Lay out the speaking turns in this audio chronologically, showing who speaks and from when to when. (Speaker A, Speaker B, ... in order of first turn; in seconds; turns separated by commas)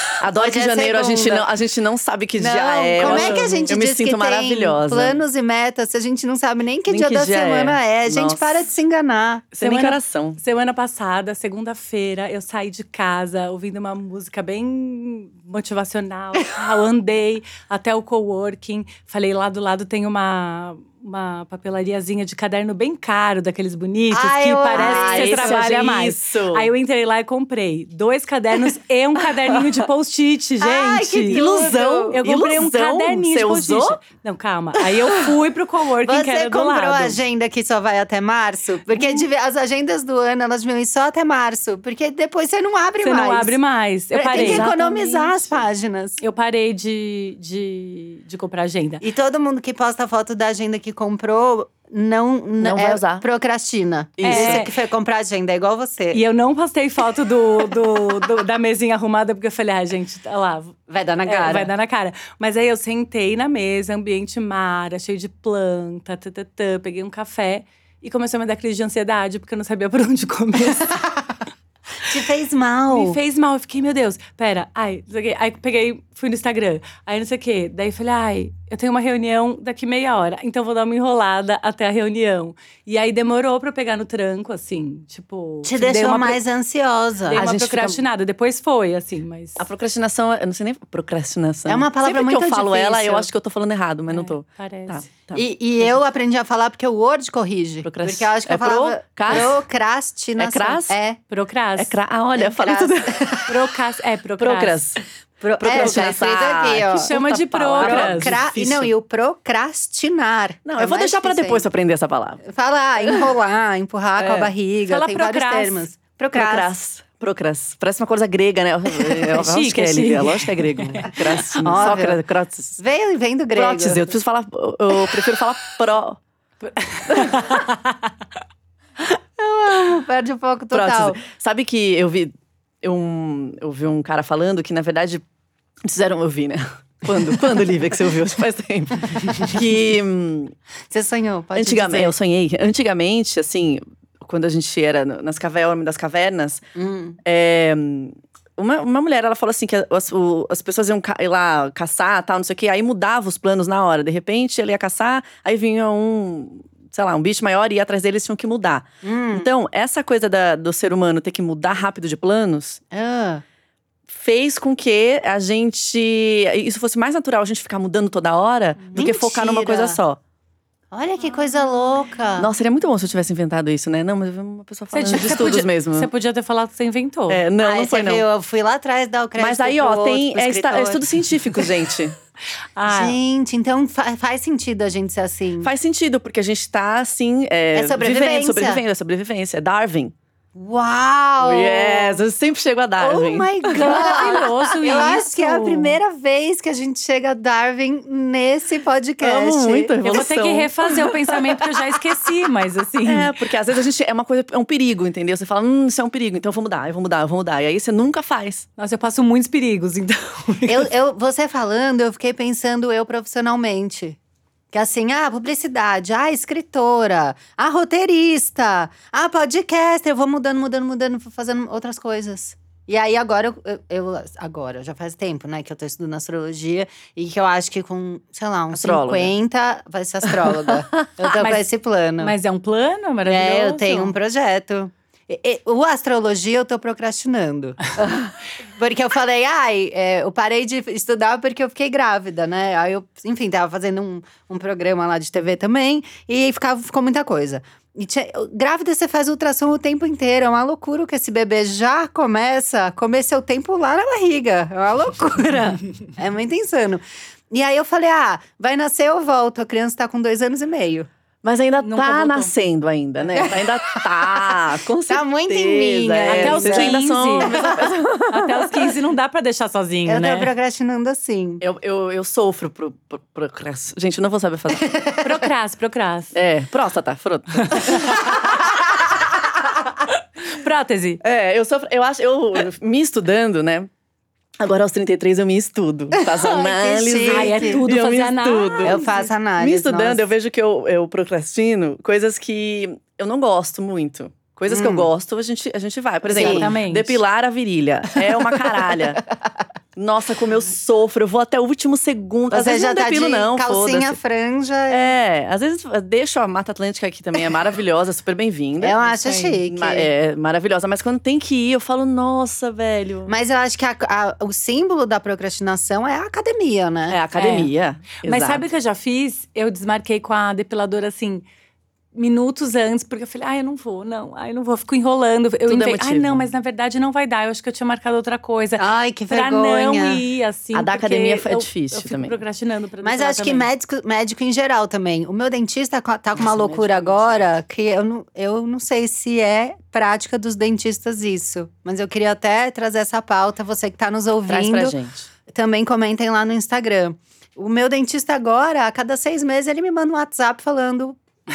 Speaker A: 0.2-5.2, Speaker B: 0.3-1.4, Speaker B: 2.4-9.5, Speaker C: 3.0-3.6, Speaker A: 6.9-8.4, Speaker A: 9.5-10.4, Speaker C: 9.6-31.4, Speaker B: 24.1-25.6, Speaker A: 24.7-26.7, Speaker A: 29.5-29.7, Speaker B: 30.6-32.2, Speaker A: 31.3-34.0, Speaker C: 32.1-37.2, Speaker B: 36.0-43.5, Speaker C: 43.0-45.2, Speaker B: 44.1-46.2, Speaker A: 44.3-45.3, Speaker C: 46.2-49.0, Speaker B: 49.0-56.2, Speaker A: 52.6-53.2, Speaker A: 54.2-54.7, Speaker C: 54.2-54.7, Speaker C: 56.1-71.0, Speaker B: 60.9-61.7, Speaker B: 72.0-73.2, Speaker C: 72.9-86.4, Speaker B: 85.6-87.4, Speaker C: 87.3-89.6, Speaker A: 87.3-88.0, Speaker A: 89.6-95.4, Speaker B: 91.7-93.3, Speaker C: 94.1-95.0, Speaker B: 95.3-101.2, Speaker A: 97.8-99.6, Speaker A: 100.4-100.9, Speaker C: 101.3-101.9, Speaker A: 101.8-103.2, Speaker B: 102.4-103.5, Speaker C: 103.5-104.8, Speaker A: 104.4-105.0, Speaker B: 105.4-107.1, Speaker A: 105.6-108.9, Speaker C: 106.9-108.4, Speaker B: 107.8-111.7, Speaker A: 110.6-112.4, Speaker B: 112.4-116.7, Speaker A: 114.2-114.5, Speaker C: 114.8-115.8, Speaker A: 116.3-122.8, Speaker C: 119.2-121.4, Speaker B: 121.6-122.2, Speaker B: 122.8-124.0, Speaker A: 123.5-126.2, Speaker C: 126.6-128.1, Speaker A: 127.1-127.4, Speaker B: 129.2-131.2, Speaker A: 130.7-135.2, Speaker A: 135.8-140.5, Speaker B: 140.9-142.1, Speaker A: 141.5-146.7, Speaker B: 146.7-147.2, Speaker A: 147.2-162.8, Speaker B: 159.0-159.5, Speaker B: 162.9-163.4, Speaker A: 164.1-170.2, Speaker B: 168.9-170.0, Speaker B: 170.9-172.5, Speaker A: 172.4-176.1, Speaker C: 174.9-177.4, Speaker A: 177.3-178.2, Speaker B: 177.6-181.1, Speaker A: 179.4-182.1, Speaker C: 182.8-183.2, Speaker B: 182.8-185.7, Speaker A: 185.6-190.1, Speaker B: 187.7-188.8, Speaker B: 190.5-192.2, Speaker A: 191.4-194.7, Speaker B: 193.0-199.9, Speaker C: 193.7-196.0, Speaker A: 199.2-201.7, Speaker C: 200.0-203.3, Speaker A: 203.0-208.6, Speaker C: 208.8-210.9, Speaker B: 210.7-214.2, Speaker B: 214.7-232.3, Speaker A: 228.7-229.3, Speaker A: 230.2-231.1, Speaker C: 231.3-231.6, Speaker C: 232.2-234.1, Speaker B: 233.2-261.1, Speaker A: 261.4-268.8, Speaker C: 261.8-262.5, Speaker B: 265.1-267.8, Speaker C: 266.3-267.6, Speaker C: 268.3-270.5, Speaker B: 270.1-271.6, Speaker A: 271.6-274.9, Speaker B: 274.9-275.2, Speaker C: 275.2-276.3, Speaker A: 276.3-278.3, Speaker C: 277.6-278.0, Speaker C: 280.4-281.2, Speaker A: 281.2-283.9, Speaker A: 284.6-289.1, Speaker B: 286.1-287.8, Speaker C: 287.2-289.2, Speaker B: 288.8-290.2, Speaker A: 289.6-299.2, Speaker B: 294.7-295.1, Speaker B: 296.3-296.7, Speaker C: 296.3-297.2, Speaker A: 299.9-304.2, Speaker B: 302.5-305.1, Speaker A: 304.9-309.0, Speaker B: 308.8-310.1, Speaker C: 309.1-309.6, Speaker A: 309.7-313.3, Speaker B: 313.3-317.2, Speaker A: 317.1-318.7, Speaker C: 317.4-317.7, Speaker C: 318.2-321.4, Speaker C: 322.1-333.7, Speaker A: 325.7-326.4, Speaker B: 328.8-330.2, Speaker A: 330.7-332.4, Speaker B: 333.0-344.9, Speaker A: 336.4-337.4, Speaker A: 344.5-345.3, Speaker B: 345.5-351.2